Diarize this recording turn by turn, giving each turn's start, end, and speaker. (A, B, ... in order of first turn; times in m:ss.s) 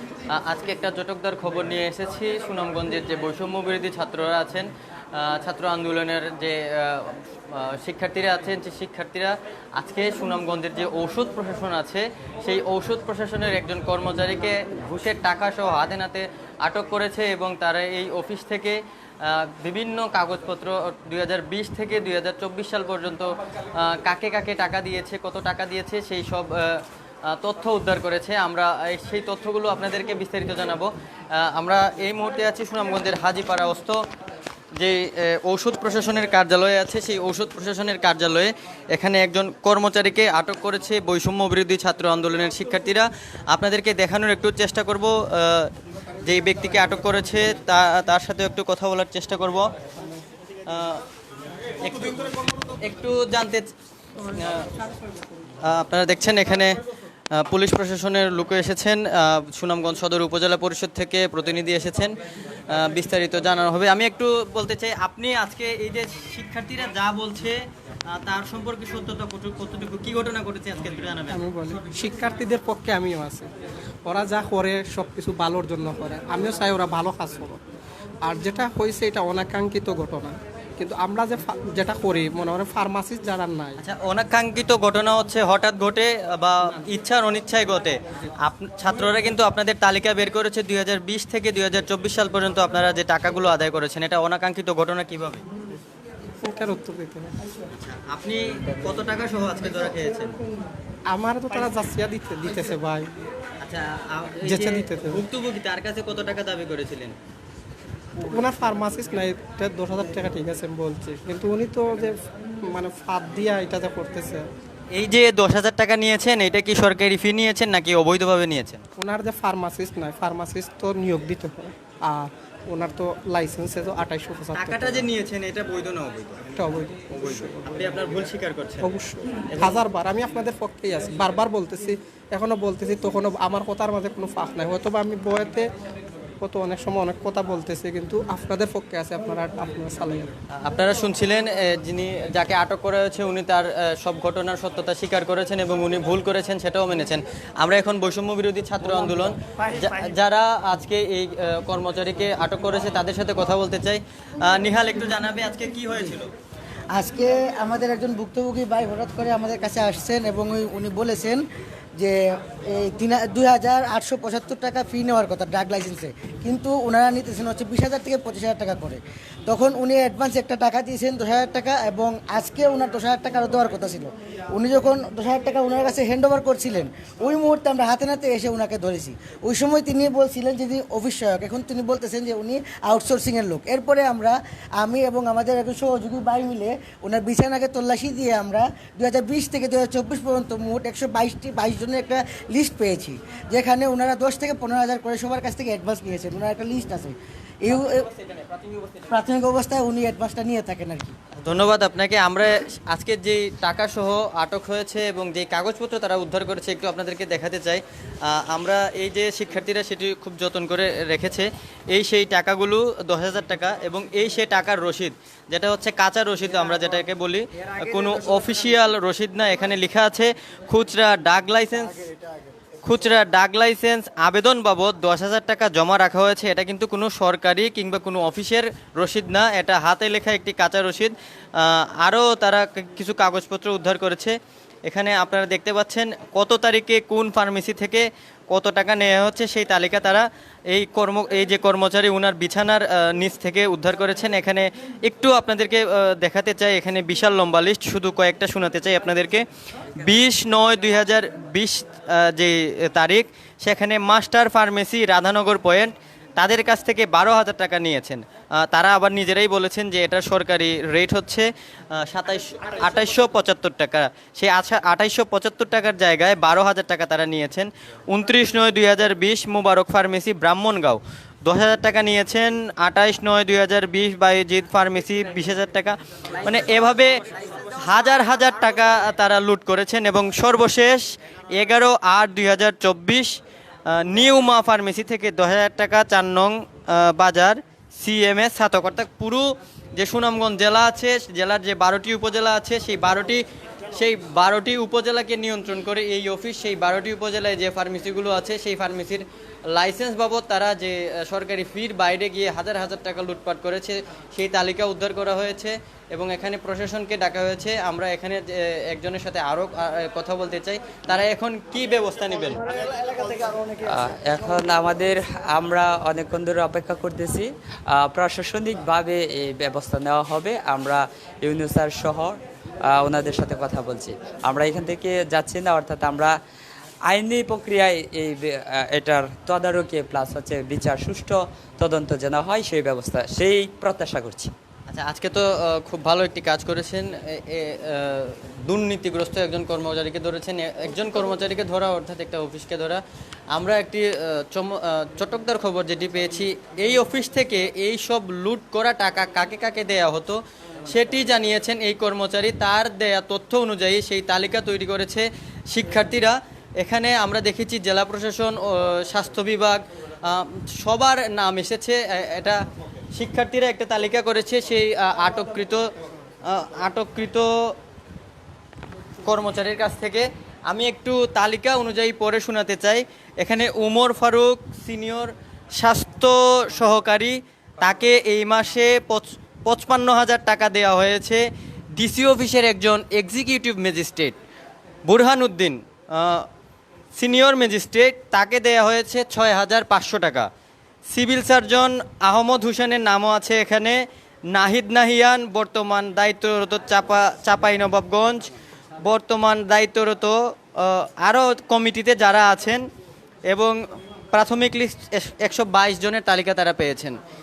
0:00.3-0:34.0 A
0:34.8-0:45.7 A
0:46.2-0:49.7 A
0:50.7-0:51.0 A
0:51.8-0:53.7 A
0:54.4-0:54.7 A
0:55.6-0:56.8 A
0:57.3-1:02.1 A
1:02.7-1:07.6 A
1:08.1-1:11.4 A
1:11.3-1:13.5 B
1:14.1-1:17.6 B
1:18.2-1:23.8 B
1:23.8-1:35.4 A
1:36.4-1:37.4 B
1:37.8-1:40.4 A
1:41.1-1:43.2 B
1:43.6-1:47.2 A
1:44.4-1:45.2 B
1:48.3-1:54.5 B
1:54.9-1:58.8 A
1:59.0-2:05.1 B
2:04.5-2:06.6 A
2:06.6-2:07.9 B
2:07.1-2:08.9 A
2:08.8-2:15.7 B
2:09.5-2:09.8 A
2:16.4-2:20.3 B
2:20.6-2:36.3 A
2:36.9-2:41.4 C
2:42.0-3:18.2 C
3:18.9-3:21.2 C
3:21.4-3:42.0 A
3:42.8-3:54.4 A
3:54.9-4:09.4 A
4:10.0-4:43.4 A
4:43.9-5:12.6 A
5:13.2-5:13.6 C
5:13.9-5:26.4 D
5:27.1-5:34.5 D
5:34.9-5:43.0 A
5:43.5-6:02.6 A
6:03.1-6:05.8 A
6:06.5-6:07.5 A
6:09.2-6:21.4 A
6:22.0-6:24.4 A
6:25.1-6:26.5 A
6:27.2-6:30.5 A
6:31.1-6:34.0 A
6:34.5-6:38.5 A
6:39.0-6:42.8 A
6:43.5-6:43.8 A
6:44.3-6:47.2 A